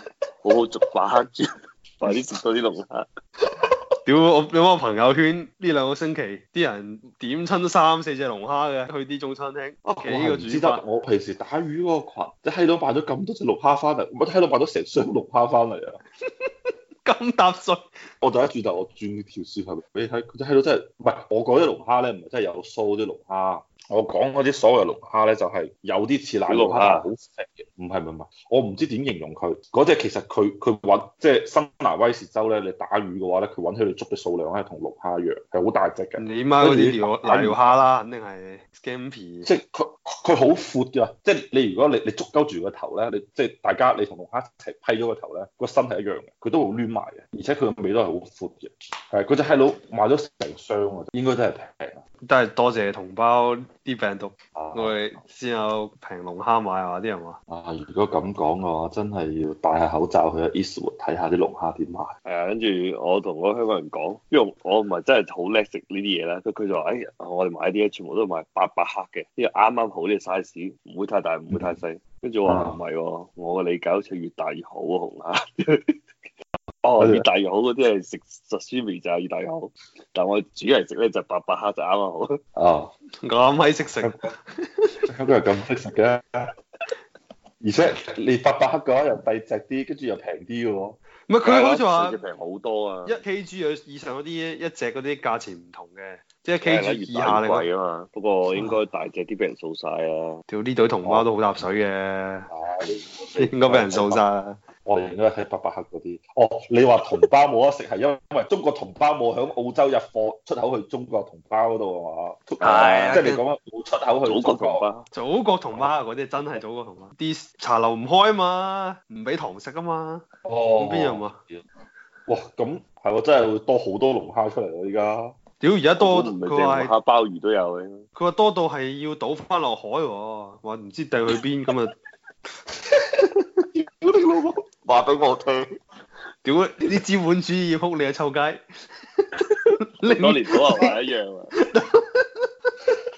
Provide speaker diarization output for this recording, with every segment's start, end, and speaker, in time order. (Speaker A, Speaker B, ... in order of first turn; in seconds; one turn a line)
Speaker A: 0.4-1.5
Speaker A: 2.0-3.1
Speaker B: 4.0-10.8
Speaker C: 9.8-16.0
Speaker B: 16.4-17.8
Speaker C: 18.2-37.6
Speaker A: 26.5-27.1
Speaker B: 36.2-39.5
Speaker C: 39.4-52.0
Speaker B: 52.2-57.4
Speaker C: 54.5-55.0
Speaker C: 57.5-62.1
Speaker A: 62.3-75.9
Speaker C: 71.5-71.8
Speaker C: 72.5-72.8
Speaker A: 76.8-82.4
Speaker C: 77.0-77.2
Speaker C: 82.6-82.9
Speaker B: 83.2-84.9
Speaker C: 84.0-84.3
Speaker C: 85.1-86.5
Speaker C: 87.6-91.0
Speaker B: 91.3-92.2
Speaker A: 91.4-93.2
Speaker B: 93.1-97.7
Speaker A: 96.6-100.4
Speaker B: 98.5-98.8
Speaker B: 100.5-102.5
Speaker C: 101.0-101.3
Speaker C: 102.5-104.2
Speaker B: 103.4-104.6
Speaker C: 104.8-114.9
Speaker A: 112.6-113.2
Speaker B: 112.8-113.4
Speaker A: 114.2-115.1
Speaker B: 115.1-120.2
Speaker C: 115.7-116.6
Speaker C: 120.4-121.6
Speaker B: 120.8-121.4
Speaker C: 122.3-125.3
Speaker B: 125.6-126.9
Speaker A: 126.0-128.0
Speaker B: 128.1-131.9
Speaker C: 133.7-135.7
Speaker B: 136.4-138.6
Speaker B: 139.2-140.9
Speaker A: 140.1-141.5
Speaker B: 141.5-142.9